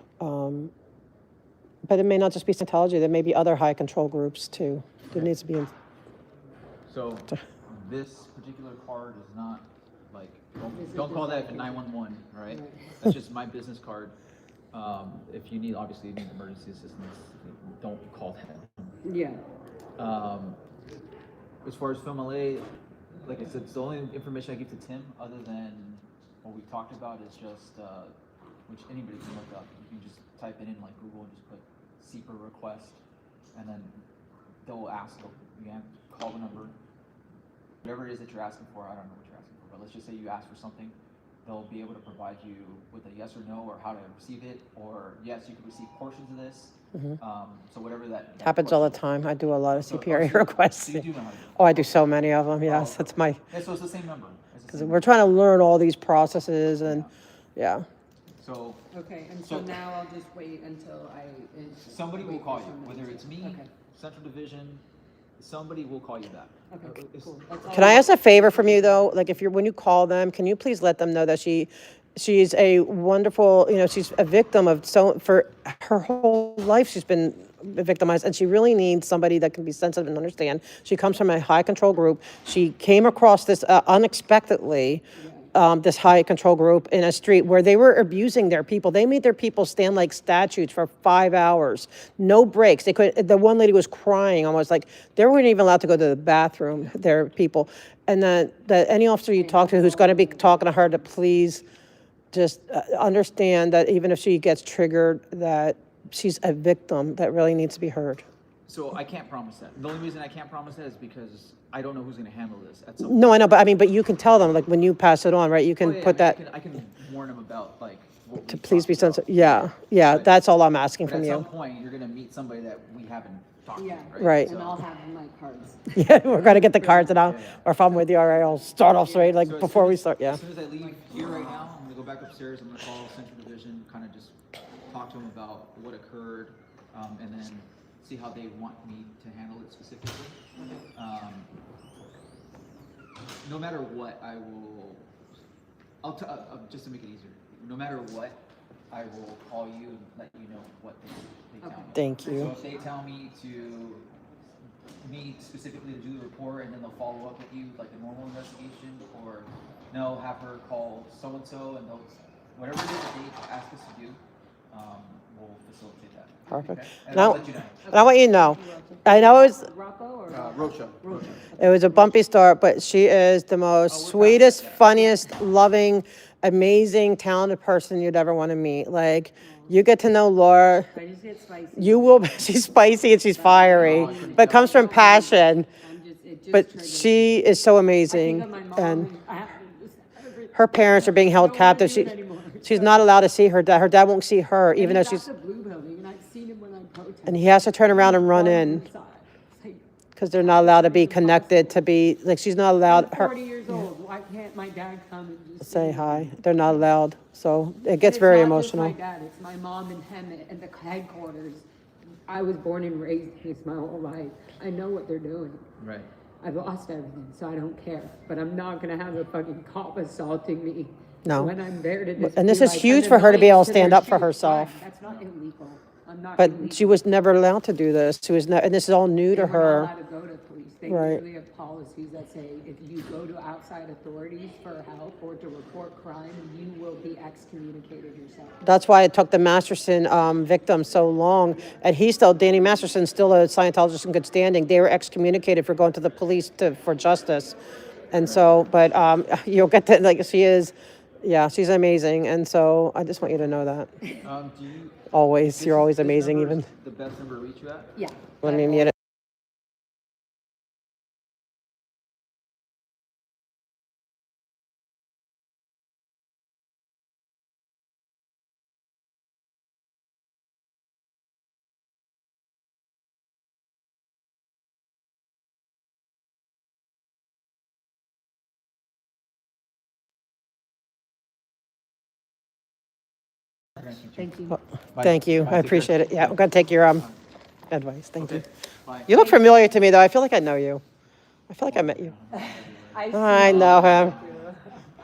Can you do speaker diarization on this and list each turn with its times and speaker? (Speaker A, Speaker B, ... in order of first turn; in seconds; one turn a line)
Speaker A: 0.2-0.7
Speaker A: 1.8-5.7
Speaker B: 6.9-14.1
Speaker C: 10.7-11.8
Speaker C: 12.5-13.0
Speaker B: 14.7-19.0
Speaker C: 19.0-19.4
Speaker B: 20.0-20.6
Speaker B: 21.6-22.7
Speaker B: 23.2-28.1
Speaker B: 28.7-33.0
Speaker B: 33.5-34.0
Speaker B: 34.6-36.7
Speaker B: 37.8-49.0
Speaker A: 46.9-47.2
Speaker A: 48.4-51.0
Speaker B: 49.7-52.1
Speaker A: 51.6-53.4
Speaker B: 52.6-55.1
Speaker A: 54.7-57.8
Speaker B: 56.8-57.1
Speaker B: 58.4-58.8
Speaker C: 58.9-63.7
Speaker B: 59.4-59.7
Speaker B: 61.9-64.8
Speaker B: 65.4-67.3
Speaker C: 66.7-69.1
Speaker A: 67.7-101.6
Speaker C: 85.1-85.5
Speaker C: 99.3-101.0
Speaker A: 102.3-108.2
Speaker B: 108.7-113.3
Speaker A: 113.0-116.4
Speaker B: 115.8-120.3
Speaker A: 118.5-121.5
Speaker B: 121.0-124.8
Speaker C: 123.8-127.3
Speaker A: 124.2-124.5
Speaker A: 125.9-130.4
Speaker B: 127.2-127.6
Speaker C: 128.8-129.5
Speaker B: 129.4-134.3
Speaker C: 130.7-131.4
Speaker B: 134.9-140.4
Speaker B: 140.9-141.5
Speaker B: 143.4-145.1
Speaker B: 146.0-148.4
Speaker B: 148.9-154.1
Speaker C: 151.6-152.8
Speaker A: 151.9-152.5
Speaker B: 155.0-167.8
Speaker A: 166.5-169.6
Speaker C: 167.1-172.2
Speaker B: 170.3-171.4
Speaker A: 171.6-180.9
Speaker B: 173.9-175.1
Speaker C: 179.4-179.8
Speaker C: 180.9-182.5
Speaker A: 181.7-185.7
Speaker C: 183.2-187.4
Speaker B: 183.7-184.8
Speaker A: 186.5-189.1
Speaker C: 188.1-193.0
Speaker A: 190.5-192.1
Speaker A: 192.6-195.2
Speaker C: 194.7-201.8
Speaker A: 197.3-198.8
Speaker A: 200.2-203.9
Speaker C: 202.9-206.3
Speaker A: 205.6-208.9
Speaker B: 206.6-206.9
Speaker C: 208.0-211.7
Speaker C: 212.3-215.6
Speaker B: 215.8-216.1
Speaker C: 216.4-227.0
Speaker A: 221.2-221.5
Speaker A: 222.2-224.7
Speaker A: 226.4-229.9
Speaker C: 229.3-238.6
Speaker A: 230.9-231.2
Speaker A: 238.6-247.5
Speaker A: 248.1-253.9
Speaker B: 248.2-248.5
Speaker B: 254.2-255.0
Speaker A: 255.1-256.7
Speaker B: 255.5-258.0
Speaker C: 257.9-258.9
Speaker A: 258.4-258.9
Speaker B: 283.8-284.3
Speaker C: 284.2-284.6
Speaker B: 284.9-287.2
Speaker A: 285.0-287.0
Speaker A: 287.7-288.4
Speaker B: 288.2-289.4
Speaker A: 289.1-290.8
Speaker C: 289.3-289.8
Speaker A: 291.5-292.1
Speaker B: 291.6-294.5
Speaker C: 292.3-294.9
Speaker A: 293.1-294.1